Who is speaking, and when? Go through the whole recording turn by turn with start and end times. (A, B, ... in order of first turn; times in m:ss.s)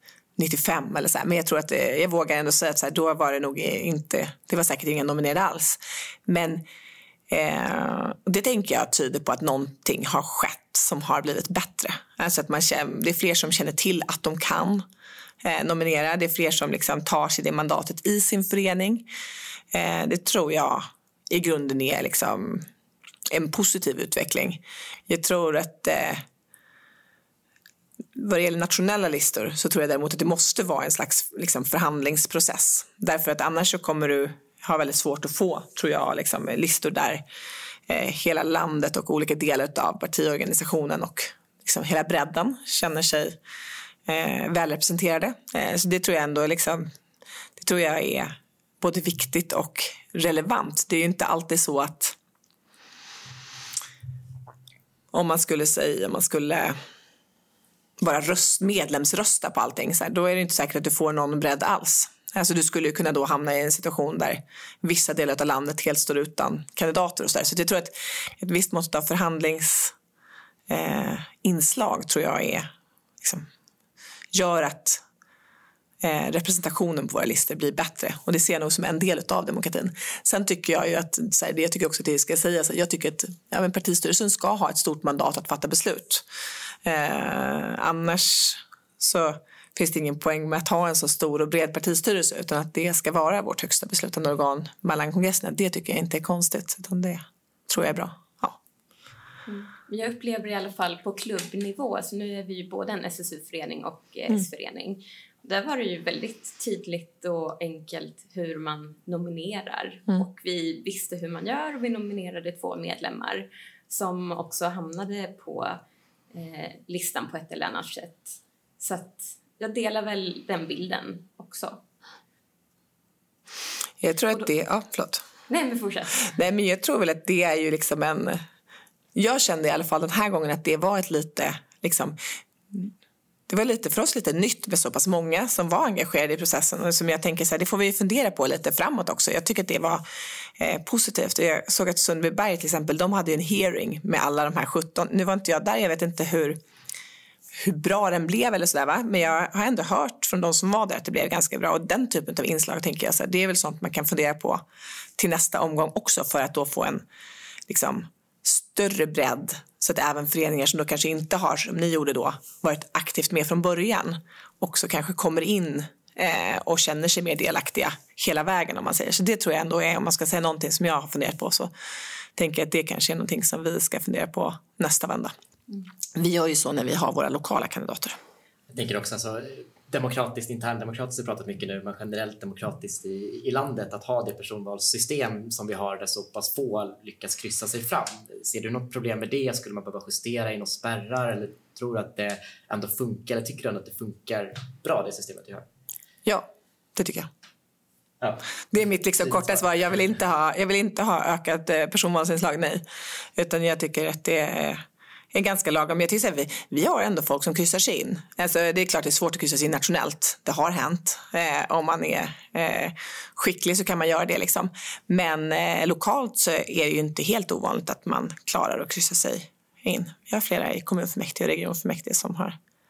0:00.4-0:06.6 A
0:07.3-0:14.8 A
0:15.4-0:19.1 A
0:19.7-0:22.6 A
0:23.3-0:26.2 A
0:28.2-0:37.2 A
0:37.9-0:43.4 A
0:44.1-0:46.9 A
0:47.6-0:52.2 A
0:55.1-0:56.8 A
0:58.0-1:09.9 A
1:10.7-1:12.7 A
1:14.3-1:15.0 A
1:16.0-1:26.2 A
1:26.8-1:38.6 A
1:39.4-1:55.8 B
1:56.3-2:01.8 B
2:04.0-2:05.2 A
2:05.5-2:06.2 B
2:06.2-2:08.4 A
2:09.1-2:12.2 A
2:13.5-2:20.0 A
2:20.6-2:26.6 A
2:27.5-2:34.6 A
2:35.2-2:37.0 A
2:37.7-2:51.7 A
2:52.4-2:55.3 A
2:56.1-2:58.2 A
2:58.7-3:15.6 C
3:16.2-3:17.3 A
3:18.2-3:18.5 C
3:18.7-3:22.8 A
3:19.2-3:19.6 C
3:23.4-3:42.6 A